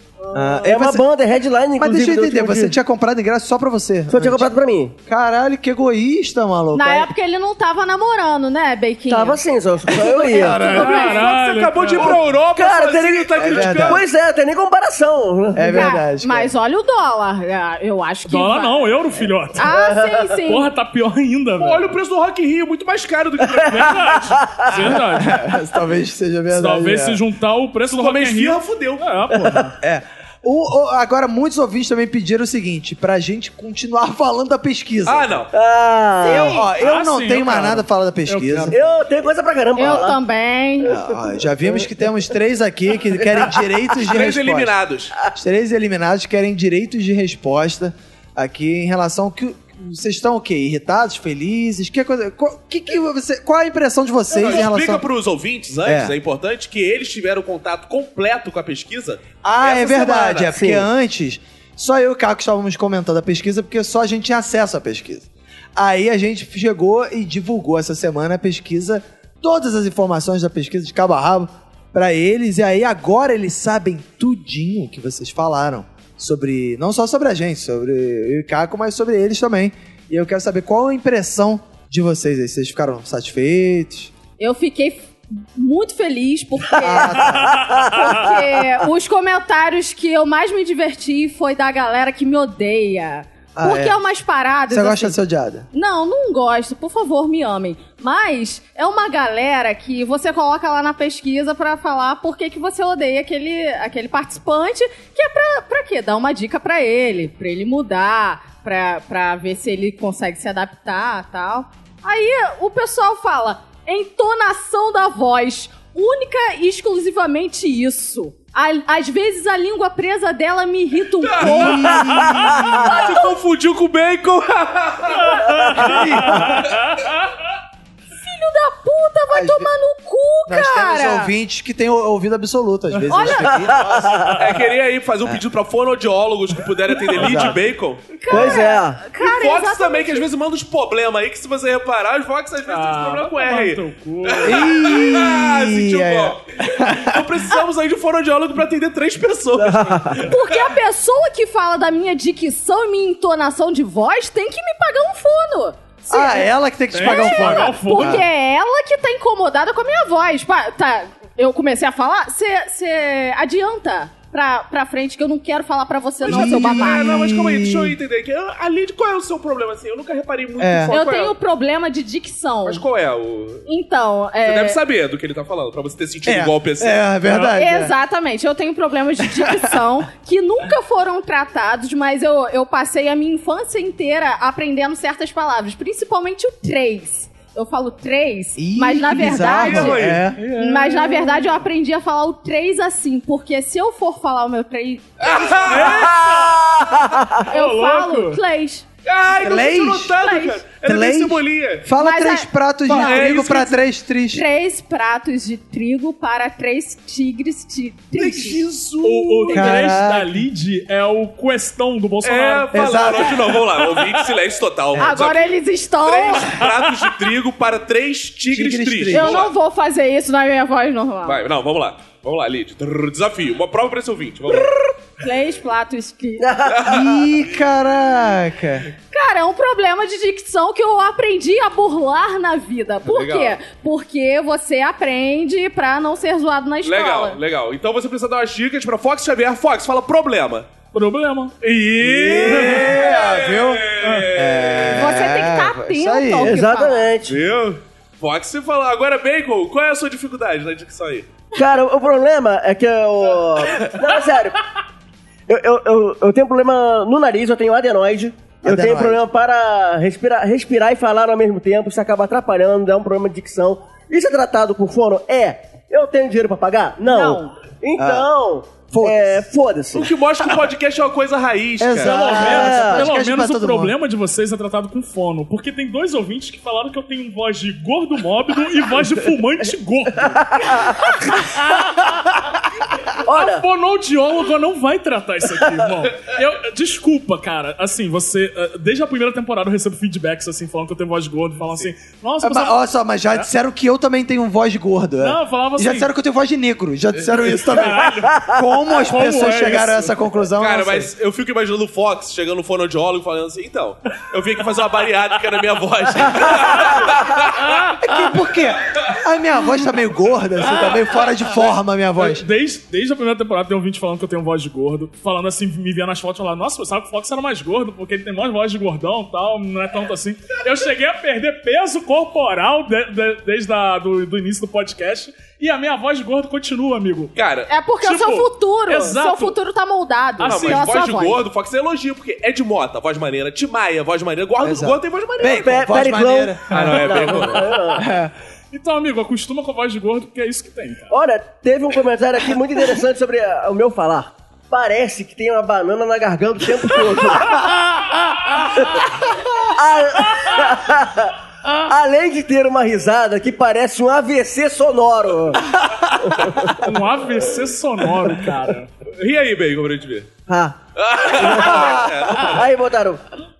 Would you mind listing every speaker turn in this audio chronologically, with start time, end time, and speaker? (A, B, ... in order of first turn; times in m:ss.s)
0:00.2-0:02.7 A
0:00.3-0:01.0 B
0:01.8-0:04.5 B
0:04.1-0:05.0 A
0:05.1-0:07.1 B
0:06.7-0:09.4 C
0:09.1-0:10.6 A
0:10.1-0:11.4 C
0:10.3-0:11.0 B
0:10.4-0:12.2 D
0:11.0-0:14.0 E
0:12.0-0:16.0 A
0:13.4-0:14.0 B
0:15.5-0:16.5 B
0:15.7-0:18.9 C
0:18.2-0:19.7 D
0:19.5-0:20.7 C
0:19.6-0:20.3 A
0:20.4-0:21.9 D
0:21.6-0:24.3 E
0:23.6-0:25.5 D
0:24.3-0:24.9 A
0:25.1-0:27.2 B
0:26.5-0:29.7 D
0:27.8-0:29.1 E
0:29.3-0:29.7 A
0:29.8-0:35.4 B
0:35.0-0:35.5 E
0:35.5-0:36.6 A
0:36.2-0:36.7 C
0:36.3-0:38.8 B
0:36.8-0:38.8 D
0:38.7-0:40.2 A
0:39.8-0:40.9 C
0:40.8-0:44.7 B
0:40.9-0:41.8 A
0:43.9-0:45.1 E
0:45.3-0:55.0 B
0:54.3-1:00.5 E
0:55.8-0:56.1 B
0:59.4-1:24.1 B
1:00.5-1:00.9 A
1:24.4-1:35.2 C
1:26.8-1:27.7 B
1:26.8-1:28.4 A
1:33.6-1:34.0 B
1:34.7-1:35.7 B
1:35.7-2:03.4 C
2:01.2-2:05.9 E
2:01.4-2:02.8 B
2:05.4-2:07.0 D
2:05.8-2:06.6 B
2:06.6-2:06.9 E
2:08.2-2:11.3 C
2:09.3-2:09.7 B
2:10.5-2:14.1 B
2:13.1-2:13.8 C
2:13.5-2:14.4 A
2:14.2-2:18.1 E
2:17.1-2:17.6 B
2:18.2-2:20.2 C
2:18.3-2:19.0 A
2:19.2-2:30.6 E
2:22.7-2:24.7 D
2:24.4-2:27.2 B
2:29.6-2:30.3 A
2:30.2-2:47.2 C
2:36.1-2:38.2 B
2:36.9-2:38.2 D
2:46.2-2:51.3 E
2:46.2-2:48.0 B
2:50.6-2:51.0 B
2:50.9-2:52.8 C
2:52.6-2:53.6 E
2:53.6-2:54.8 C
2:54.4-2:57.4 E
2:56.2-2:57.9 B
2:57.5-3:16.2 C
2:59.4-2:59.8 B
3:08.6-3:10.4 B
3:09.6-3:10.3 E
3:10.3-3:11.6 D
3:15.2-3:16.5 E
3:15.7-3:16.7 D
3:16.1-3:17.4 A
3:17.4-3:18.4 D
3:17.4-3:18.8 C
3:19.0-3:21.9 E
3:19.3-3:20.2 B
3:20.1-3:20.6 C
3:20.8-3:24.4 B
3:22.0-3:23.6 C
3:22.9-3:23.8 E
3:24.3-3:28.6 C
3:28.1-3:29.9 E
3:29.0-3:32.8 D
3:29.5-3:30.4 B
3:32.2-3:39.5 E
3:32.7-3:33.5 B
3:35.0-3:36.7 C
3:38.5-3:39.4 B
3:39.1-3:41.4 C
3:41.2-3:44.9 E
3:45.2-3:46.5 C
3:46.4-3:47.2 A
3:46.7-3:47.1 E
3:46.8-3:48.9 B
3:49.1-3:57.4 C
3:53.0-3:53.6 E
3:56.8-4:00.7 E
4:00.9-4:03.0 D
4:01.7-4:05.2 E
4:02.0-4:06.6 B
4:04.0-4:04.3 D
4:04.9-4:07.1 C
4:06.4-4:07.4 A
4:07.2-4:11.3 E
4:11.5-4:14.6 A
4:15.5-4:30.1 A
4:18.6-4:19.2 B
4:27.0-4:27.6 C
4:28.0-4:28.3 B
4:28.9-4:29.4 B
4:29.9-4:32.2 E
4:31.8-4:33.9 B
4:32.0-4:42.3 D
4:32.1-4:33.1 A
4:40.3-4:41.2 A
4:43.2-4:43.6 A
4:43.3-4:52.8 D
4:52.4-5:01.1 B
4:55.2-4:56.1 D
4:57.4-5:00.1 D
4:58.1-4:58.6 A
5:00.6-5:07.7 E
5:08.0-5:12.4 B
5:12.2-5:27.3 D
5:27.4-5:27.7 E
5:27.7-5:31.4 C
5:28.0-5:29.6 D
5:30.4-5:31.0 D
5:30.4-5:36.0 E
5:34.6-5:38.3 B
5:35.5-5:38.1 A
5:36.7-5:37.8 E
5:38.7-5:41.1 D
5:41.1-5:47.7 A
5:48.6-5:56.9 A
5:56.7-5:58.9 D
5:59.1-6:00.3 E
6:00.5-6:00.8 A
6:01.0-6:02.7 E
6:01.3-6:03.2 A
6:01.5-6:02.2 B